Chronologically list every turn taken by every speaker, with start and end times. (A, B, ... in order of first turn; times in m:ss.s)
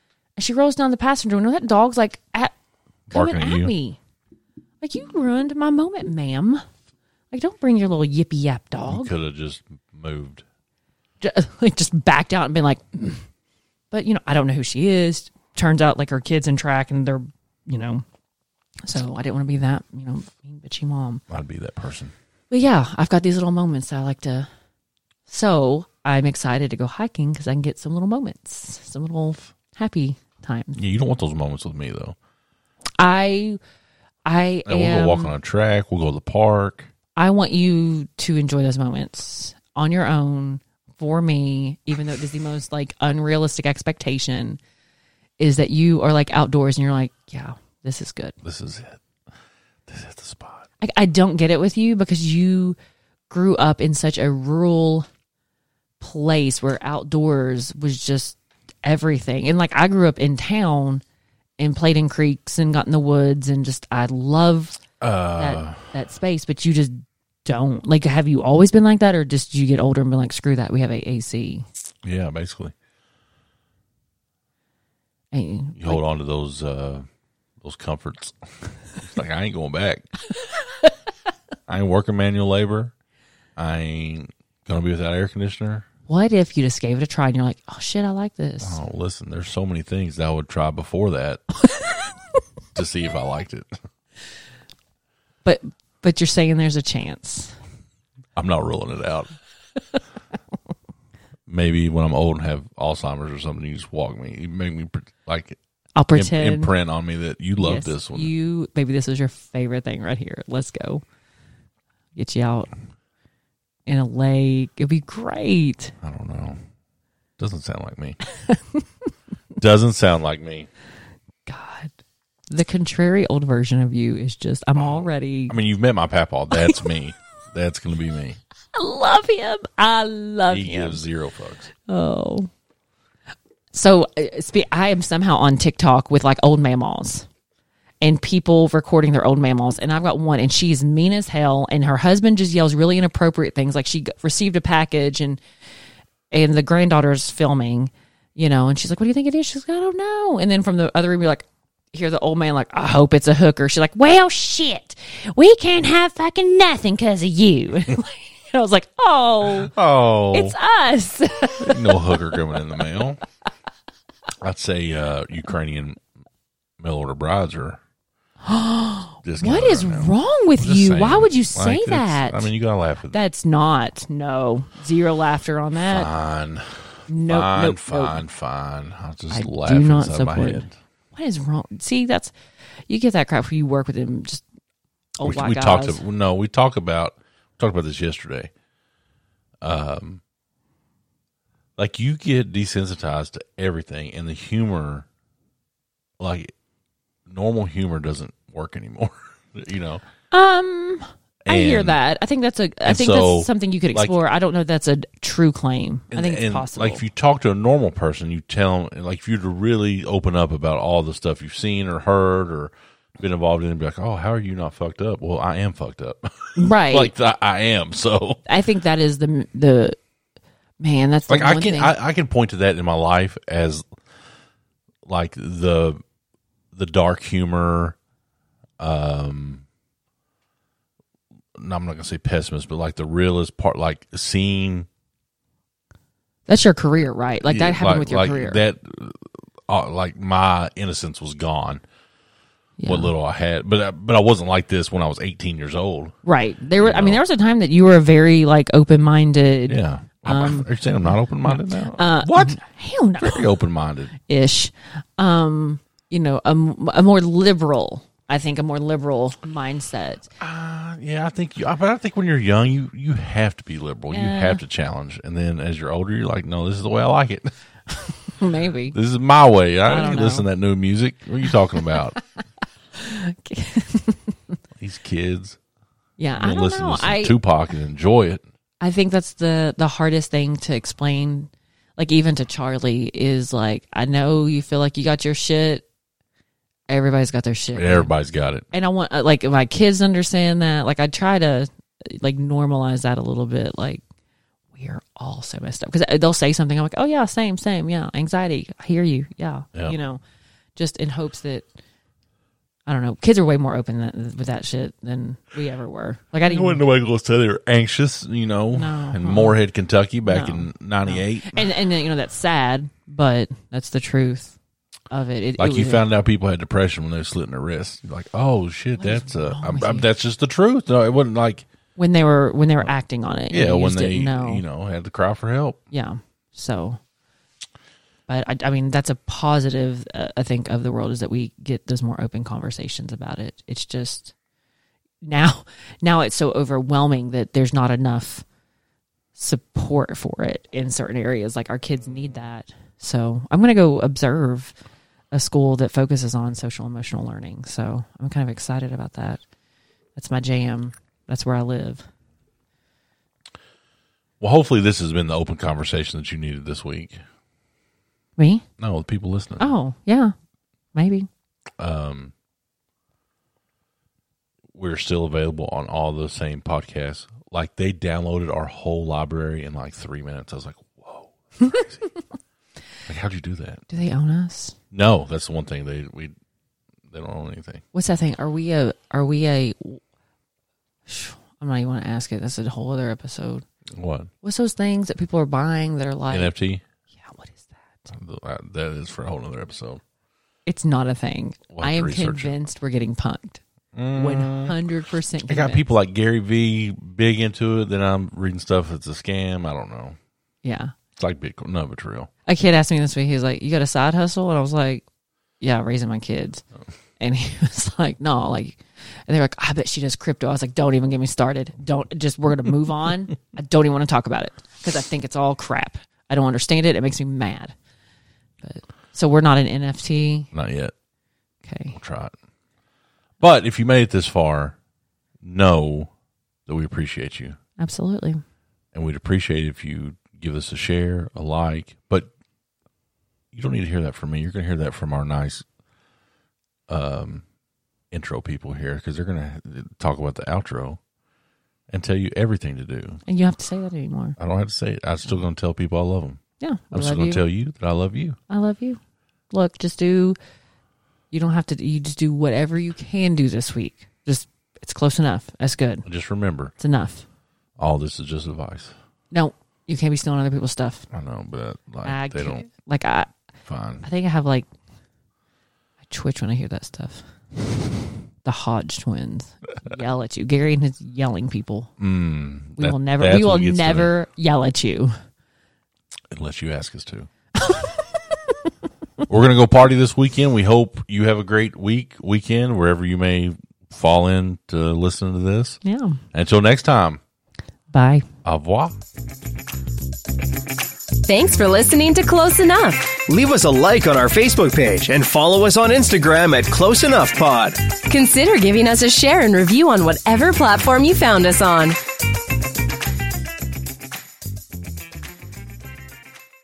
0:00.4-0:02.5 A
0:03.1-0:03.7 B
0:03.1-0:04.0 A
0:04.8-0:06.6 A
0:07.3-0:09.1 A
0:08.9-0:10.4 B
0:11.2-0:13.2 A
0:13.9-0:18.0 A
0:18.8-0:21.2 A
0:21.3-0:22.1 B
0:22.5-0:24.5 A
0:25.3-0:30.8 A
0:30.8-0:32.2 B
0:33.0-0:33.6 A
0:34.2-0:35.3 A
0:34.6-0:36.9 B
0:37.2-0:44.6 A
0:45.4-0:48.3 A
0:48.4-0:49.0 B
0:49.9-0:50.7 B
0:50.8-0:52.8 A
0:53.3-0:55.1 A
0:56.0-1:01.0 A
1:01.6-1:04.8 A
1:05.0-1:05.8 B
1:05.4-1:06.9 A
1:07.4-1:11.6 A
1:12.0-1:12.7 B
1:15.3-1:16.0 A
1:15.8-1:17.0 B
1:17.6-1:18.4 B
1:19.0-1:20.1 B
1:21.7-1:22.9 B
1:23.6-1:25.8 B
1:26.1-1:28.8 A
1:28.6-1:31.4 B
1:32.7-1:33.8 B
1:35.4-1:37.5 A
1:38.4-1:39.3 B
1:41.5-1:45.6 B
1:46.0-1:46.7 A
1:46.1-1:48.3 B
1:47.6-1:51.0 A
1:52.1-1:52.7 A
1:53.9-1:55.9 A
1:56.0-1:56.6 B
1:57.4-1:58.2 B
1:58.5-1:58.8 A
1:59.6-2:00.7 B
2:01.4-2:01.9 A
2:02.5-2:05.5 A
2:04.8-2:08.4 B
2:08.7-2:11.0 A
2:10.5-2:11.7 B
2:11.9-2:12.5 A
2:13.7-2:17.2 A
2:18.0-2:25.4 A
2:26.3-2:39.7 A
2:39.6-2:40.5 B
2:40.3-2:42.4 A
2:41.6-2:43.2 B
2:44.4-2:46.0 B
2:46.8-2:47.8 B
2:48.4-2:52.5 A
2:49.2-2:53.2 B
2:53.1-2:56.1 A
2:55.9-3:00.7 B
2:57.1-2:58.2 A
2:59.3-3:02.3 A
3:02.9-3:04.4 A
3:05.2-3:06.0 A
3:05.2-3:08.5 B
3:09.6-3:10.2 B
3:11.8-3:15.0 B
3:16.2-3:16.5 B
3:17.3-3:20.0 B
3:20.3-3:27.0 A
3:21.4-3:22.0 B
3:22.8-3:24.1 B
3:26.1-3:38.4 B
3:36.6-3:37.1 A
3:38.5-3:40.0 A
3:40.8-3:41.9 A
3:41.3-3:43.8 B
3:45.0-3:46.0 B
3:46.7-3:48.0 B
3:48.8-3:49.6 B
3:51.6-3:54.9 B
3:56.5-3:58.6 A
3:57.4-4:01.8 B
4:02.8-4:03.1 A
4:02.8-4:06.1 B
4:06.2-4:13.5 A
4:06.8-4:07.2 B
4:09.7-4:12.6 B
4:13.2-4:14.1 B
4:14.3-4:20.3 A
4:20.4-4:27.5 B
4:24.1-4:24.6 A
4:27.9-4:29.0 A
4:28.9-4:32.2 B
4:29.9-4:30.5 A
4:31.9-4:32.2 A
4:33.0-4:34.4 A
4:34.8-4:35.6 B
4:36.2-4:37.4 A
4:36.4-4:38.4 B
4:38.8-4:45.8 A
4:46.9-4:48.1 A
4:47.7-4:48.6 B
4:48.7-4:54.0 A
4:54.7-5:00.2 A
5:00.8-5:01.7 A
5:02.9-5:06.8 A
5:06.4-5:11.7 B
5:08.7-5:09.6 A
5:10.2-5:14.6 A
5:15.1-5:16.0 A
5:15.6-5:21.6 B
5:19.0-5:20.1 A
5:22.0-5:24.6 A
5:23.5-5:25.8 B
5:25.9-5:27.0 A
5:28.3-5:34.3 A
5:35.2-5:38.4 A
5:39.4-5:44.7 A
5:45.3-5:49.4 A
5:50.2-5:52.0 A
5:54.4-5:57.2 B
5:58.4-5:58.6 A
5:58.8-5:59.7 B
5:59.6-6:00.3 A
6:00.9-6:01.3 A
6:01.8-6:02.3 B
6:04.7-6:12.0 B
6:13.1-6:13.8 B
6:13.9-6:14.7 A
6:14.9-6:16.3 B
6:17.1-6:17.8 B
6:17.9-6:20.0 A
6:21.1-6:23.6 A
6:23.9-6:24.3 B
6:24.4-6:26.5 A
6:26.3-6:26.8 B
6:27.2-6:28.1 A
6:28.1-6:30.0 B
6:30.7-6:33.6 A
6:31.7-6:32.5 B
6:33.9-6:34.8 B
6:34.2-6:35.8 A
6:35.5-6:40.2 B
6:40.6-6:40.9 A
6:41.2-6:42.3 B
6:42.5-6:45.0 A
6:45.6-6:46.6 A
6:47.2-6:57.7 A
6:58.6-7:00.5 A
7:00.5-7:00.9 B
7:01.6-7:02.0 A
7:01.9-7:02.3 B
7:03.4-7:04.8 B
7:05.4-7:06.1 B
7:06.7-7:07.6 B
7:07.8-7:08.4 A
7:08.9-7:12.3 B
7:13.5-7:15.6 B
7:16.9-7:17.4 B
7:18.1-7:21.0 B
7:21.9-7:23.2 B
7:23.3-7:24.4 A
7:24.4-7:26.4 B
7:26.6-7:27.4 A
7:26.9-7:28.4 B
7:28.5-7:29.0 A
7:29.5-7:30.4 A
7:31.3-7:36.0 A
7:36.0-7:36.7 B
7:36.8-7:37.2 A
7:37.8-7:38.9 B
7:39.3-7:41.0 A
7:41.1-7:42.6 B
7:42.0-7:43.3 A
7:43.6-7:44.0 B
7:44.0-7:44.7 A
7:46.1-7:47.2 A
7:48.4-7:51.9 A
7:52.0-7:54.1 B
7:52.8-7:55.1 A
7:56.3-7:57.3 B
7:57.6-7:58.0 A
7:59.3-8:05.8 B
8:05.8-8:06.2 A
8:06.3-8:07.2 B
8:07.9-8:08.2 A
8:08.4-8:09.0 B
8:11.2-8:13.2 C
8:13.3-8:17.8 D
8:18.1-8:22.0 C